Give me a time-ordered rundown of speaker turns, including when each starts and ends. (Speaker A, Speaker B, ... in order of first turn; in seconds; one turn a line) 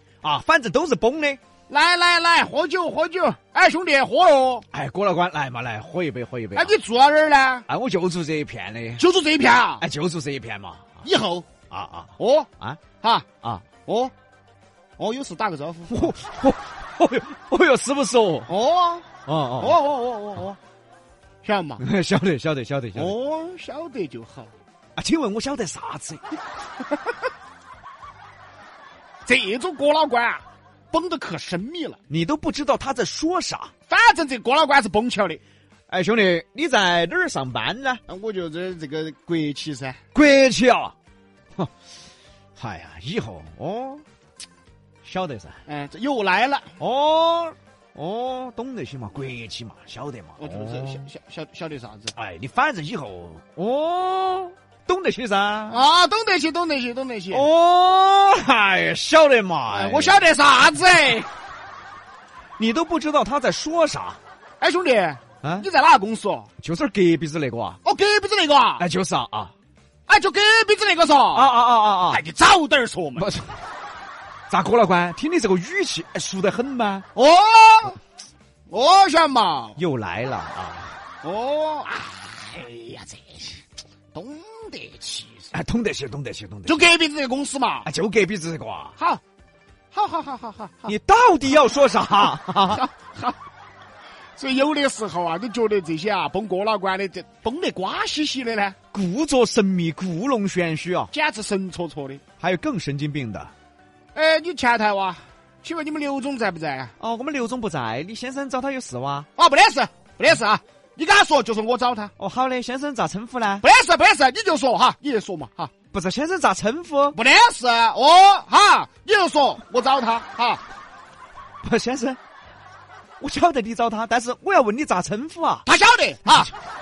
Speaker A: 0.2-1.4
Speaker B: 1.7-4.7
Speaker A: 4.7-6.7
Speaker B: 6.5-7.7
Speaker A: 7.7-9.0
Speaker B: 9.0-9.8
Speaker A: 9.8-11.0
Speaker B: 11.0-11.5
Speaker A: 11.7-12.8
Speaker B: 12.2-12.5
Speaker B: 13.8-14.1
Speaker B: 15.0-16.1
Speaker A: 15.9-18.5
Speaker B: 18.5-20.6
Speaker A: 19.3-19.8
Speaker B: 21.4-21.8
Speaker A: 21.8-23.1
Speaker B: 22.9-24.5
Speaker A: 25.0-26.2
Speaker B: 29.3-32.0
Speaker A: 32.1-33.7
Speaker B: 33.9-35.4
Speaker A: 35.9-38.0
Speaker B: 38.1-40.0
Speaker A: 40.1-40.9
Speaker A: 42.5-44.0
Speaker A: 45.0-45.6
Speaker B: 45.7-46.7
Speaker A: 46.8-51.0
Speaker B: 50.4-52.1
Speaker A: 52.1-55.8
Speaker B: 55.7-57.5
Speaker A: 57.3-60.2
Speaker B: 59.7-61.3
Speaker A: 62.6-64.2
Speaker B: 64.6-66.5
Speaker A: 66.6-67.8
Speaker B: 67.8-68.8
Speaker A: 68.8-69.5
Speaker B: 70.1-71.5
Speaker A: 71.3-72.2
Speaker B: 72.1-73.3
Speaker A: 73.2-73.5
Speaker A: 74.5-77.1
Speaker B: 77.1-78.0
Speaker B: 78.7-79.8
Speaker A: 79.8-81.0
Speaker B: 81.2-83.6
Speaker B: 84.1-85.5
Speaker A: 85.5-86.8
Speaker B: 86.7-87.9
Speaker A: 87.8-89.0
Speaker B: 89.0-89.2
Speaker B: 89.9-90.9
Speaker A: 90.8-92.8
Speaker B: 92.7-93.4
Speaker B: 94.4-98.8
Speaker A: 98.9-101.1
Speaker B: 101.1-102.2
Speaker A: 102.4-103.5
Speaker B: 104.1-106.9
Speaker A: 107.0-109.3
Speaker B: 109.4-112.1
Speaker A: 112.2-113.6
Speaker B: 113.6-115.7
Speaker A: 115.9-117.2
Speaker B: 117.1-120.6
Speaker A: 121.6-122.2
Speaker A: 123.2-125.7
Speaker B: 125.7-126.5